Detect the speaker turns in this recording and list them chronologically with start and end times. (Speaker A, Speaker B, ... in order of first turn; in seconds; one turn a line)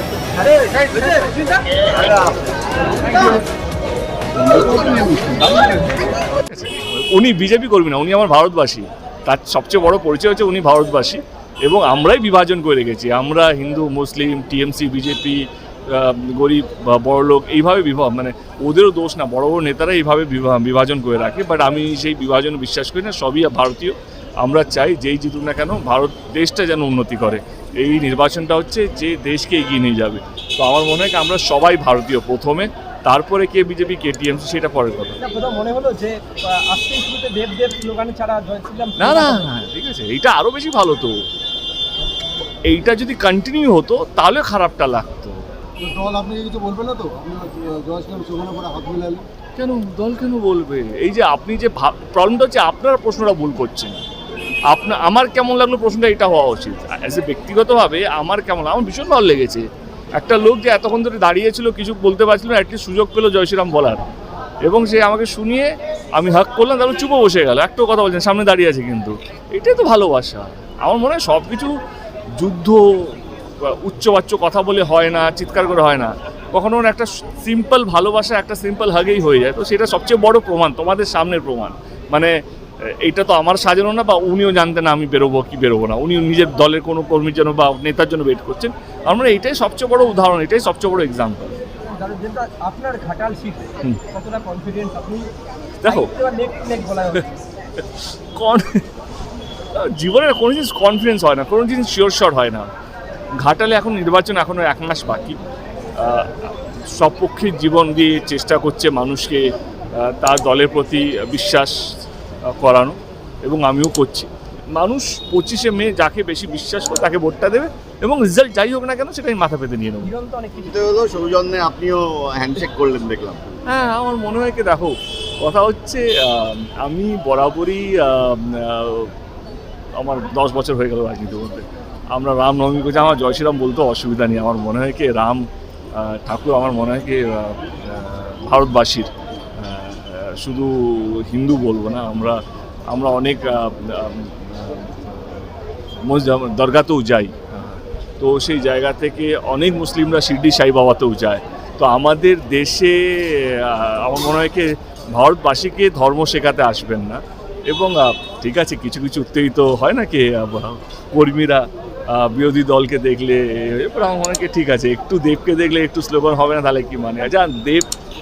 Speaker A: 0.4-1.5
Speaker B: 4.4-5.8
Speaker C: 6.5-35.2
Speaker A: 35.2-39.5
Speaker C: 39.0-41.2
Speaker C: 42.7-45.5
Speaker B: 45.8-49.3
Speaker C: 49.6-54.0
Speaker C: 54.7-59.7
Speaker C: 60.2-64.0
Speaker C: 64.7-71.7
Speaker C: 72.4-91.5
Speaker A: 91.9-95.3
Speaker C: 95.8-96.1
Speaker A: 95.8-97.3
Speaker C: 97.8-98.8
Speaker C: 99.7-102.7
Speaker C: 103.4-105.4
Speaker C: 106.0-111.8
Speaker C: 112.5-120.1
Speaker A: 120.0-120.7
Speaker D: 120.7-123.5
Speaker C: 123.7-129.1
Speaker C: 130.0-142.4
Speaker C: 142.9-145.5
Speaker C: 146.0-167.9